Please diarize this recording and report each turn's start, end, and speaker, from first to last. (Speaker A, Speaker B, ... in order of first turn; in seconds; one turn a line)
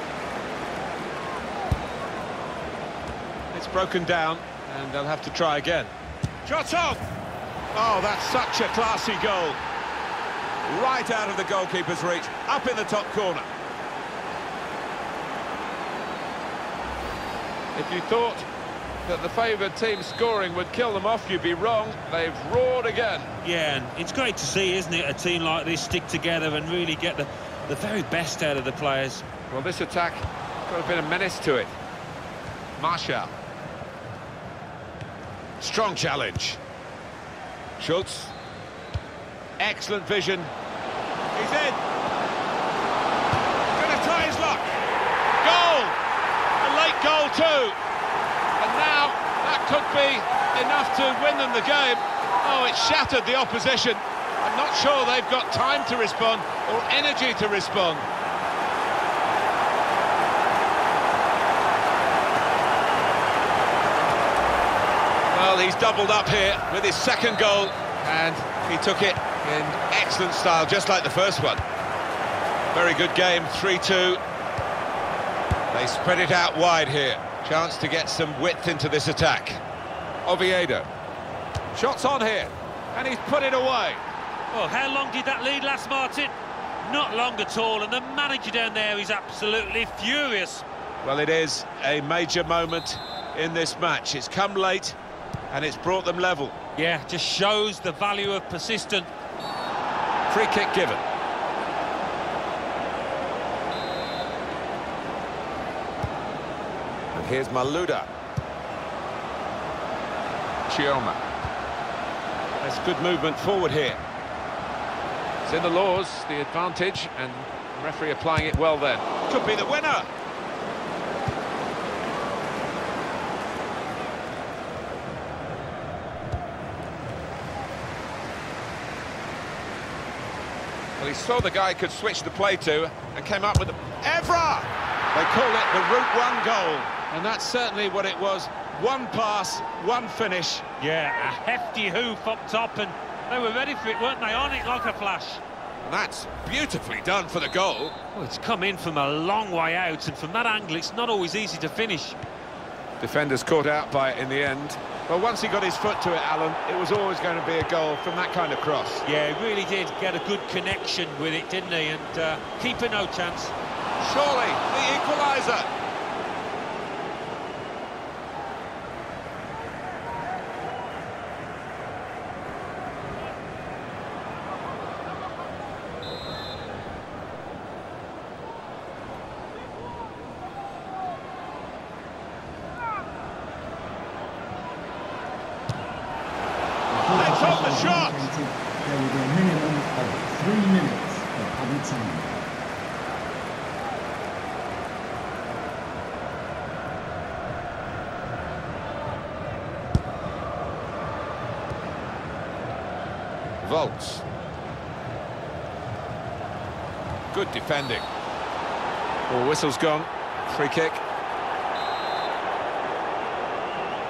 Speaker A: 3.5-5.9
Speaker A: 6.5-7.1
Speaker A: 7.7-9.6
Speaker A: 10.7-13.5
Speaker A: 17.8-18.5
Speaker A: 19.1-23.4
Speaker B: 23.4-29.3
Speaker A: 29.5-31.8
Speaker A: 32.8-33.4
Speaker A: 35.6-36.6
Speaker A: 37.8-38.3
Speaker A: 39.6-40.5
Speaker A: 41.4-41.8
Speaker A: 43.7-44.8
Speaker A: 45.4-46.0
Speaker A: 46.6-47.8
Speaker A: 48.6-58.1
Speaker A: 65.3-71.6
Speaker A: 72.7-74.2
Speaker A: 75.7-79.6
Speaker A: 80.2-80.9
Speaker A: 81.7-84.1
Speaker B: 84.5-90.7
Speaker A: 91.0-95.0
Speaker A: 95.5-96.6
Speaker B: 96.8-99.1
Speaker A: 100.3-101.0
Speaker A: 107.1-108.1
Speaker A: 110.7-111.2
Speaker A: 112.6-114.0
Speaker A: 115.4-120.1
Speaker A: 131.0-140.6
Speaker B: 140.8-145.4
Speaker A: 145.8-148.0
Speaker B: 148.1-152.2
Speaker A: 153.0-159.1
Speaker B: 159.1-163.5
Speaker A: 164.0-165.7
Speaker C: 186.9-192.4
Speaker A: 187.2-188.3
Speaker A: 203.6-204.3
Speaker A: 207.3-208.1
Speaker A: 209.3-211.0